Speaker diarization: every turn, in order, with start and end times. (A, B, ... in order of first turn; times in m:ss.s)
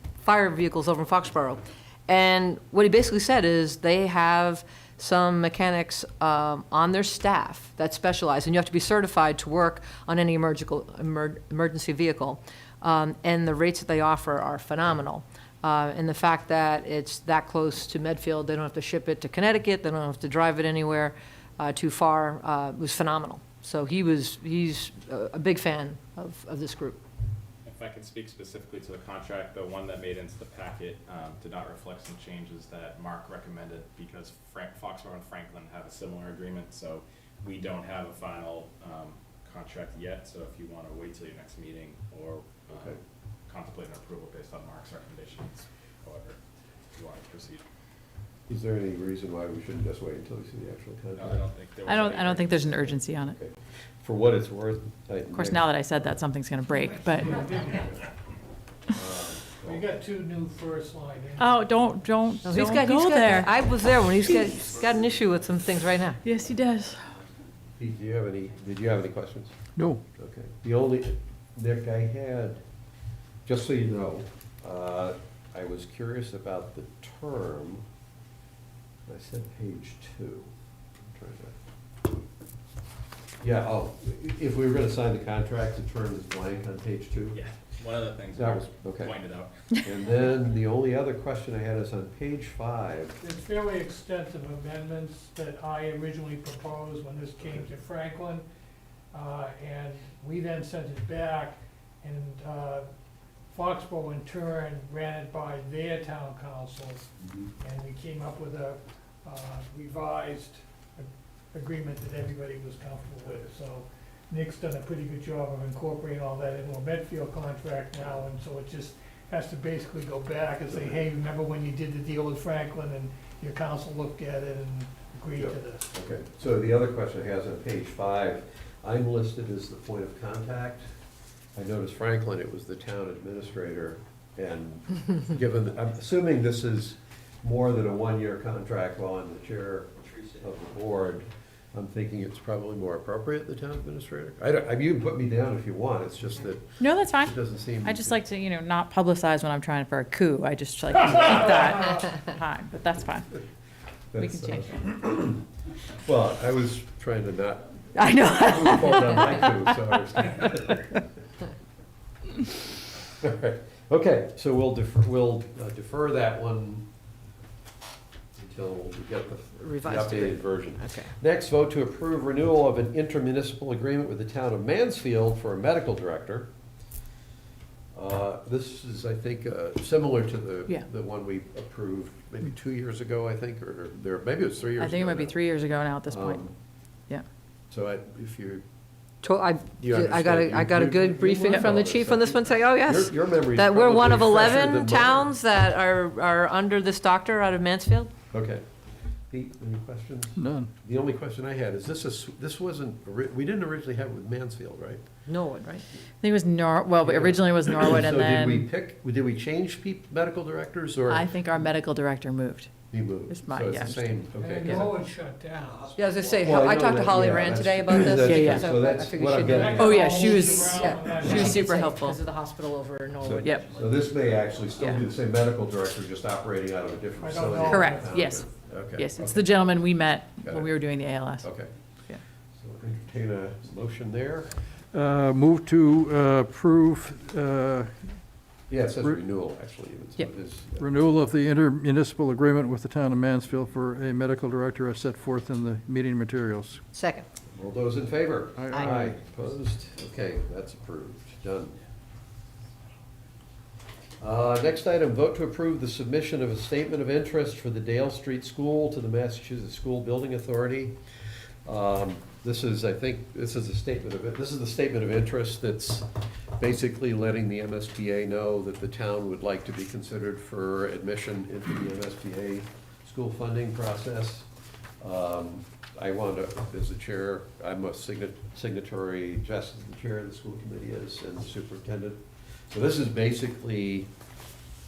0:00.2-0:27.0 A
0:27.6-0:46.4 B
0:42.7-0:43.0 C
0:47.0-0:47.6 B
0:48.5-0:51.5 C
0:51.2-0:52.9 B
0:51.9-0:53.4 D
0:53.2-0:56.2 C
0:55.3-0:57.4 D
0:57.2-0:57.8 E
0:58.9-0:59.8 C
0:59.6-1:01.6 E
1:01.4-1:03.5 D
1:02.4-1:06.2 A
1:04.2-1:04.5 D
1:06.2-1:07.0 D
1:07.8-1:09.5 C
1:09.8-1:10.0 F
1:10.2-1:12.6 C
1:13.5-1:17.8 C
1:19.1-1:21.6 C
1:23.4-1:27.4 C
1:27.3-1:29.5 B
1:28.3-1:29.2 C
1:29.8-1:33.2 C
1:33.2-1:38.5 E
1:39.1-1:42.9 E
1:43.5-1:47.1 E
1:47.6-2:05.9 E
2:05.4-2:10.9 C
2:11.6-2:28.2 C
2:26.8-2:33.4 D
2:34.1-2:35.4 C
2:34.2-2:34.8 D
2:36.0-2:40.8 C
2:38.0-2:41.0 D
2:43.2-2:46.9 C
2:48.4-2:56.5 C
2:49.6-2:51.1 A
2:57.9-3:05.4 C
3:04.8-3:06.4 D
3:06.1-3:06.5 C
3:07.7-3:08.6 C
3:09.2-3:18.1 A
3:09.8-3:15.3 C
3:18.3-3:18.6 C
3:19.3-3:25.0 C
3:20.4-3:20.7 F
3:25.3-3:25.8 A
3:26.2-3:28.7 D
3:27.0-3:31.4 C
3:31.1-3:32.7 D
3:32.9-3:34.9 C
3:33.3-3:34.8 D
3:34.4-3:36.0 E
3:36.0-3:43.7 A
3:36.4-3:39.9 C
3:38.2-3:38.7 D
3:39.4-3:41.6 E
3:39.8-3:42.2 D
3:43.2-3:49.6 C
3:43.4-3:43.7 D
3:44.8-3:45.0 D
3:47.2-3:48.2 E
3:47.7-3:51.5 D
3:50.4-3:50.7 C
3:51.4-3:51.7 C
3:52.6-3:54.6 C
3:54.9-3:58.3 F
3:58.7-4:00.9 C
4:00.8-4:06.8 F
4:07.0-4:07.3 A
4:07.5-4:11.8 C
4:08.6-4:09.2 F
4:14.2-4:21.0 C
4:21.6-4:34.5 C
4:35.0-4:44.1 C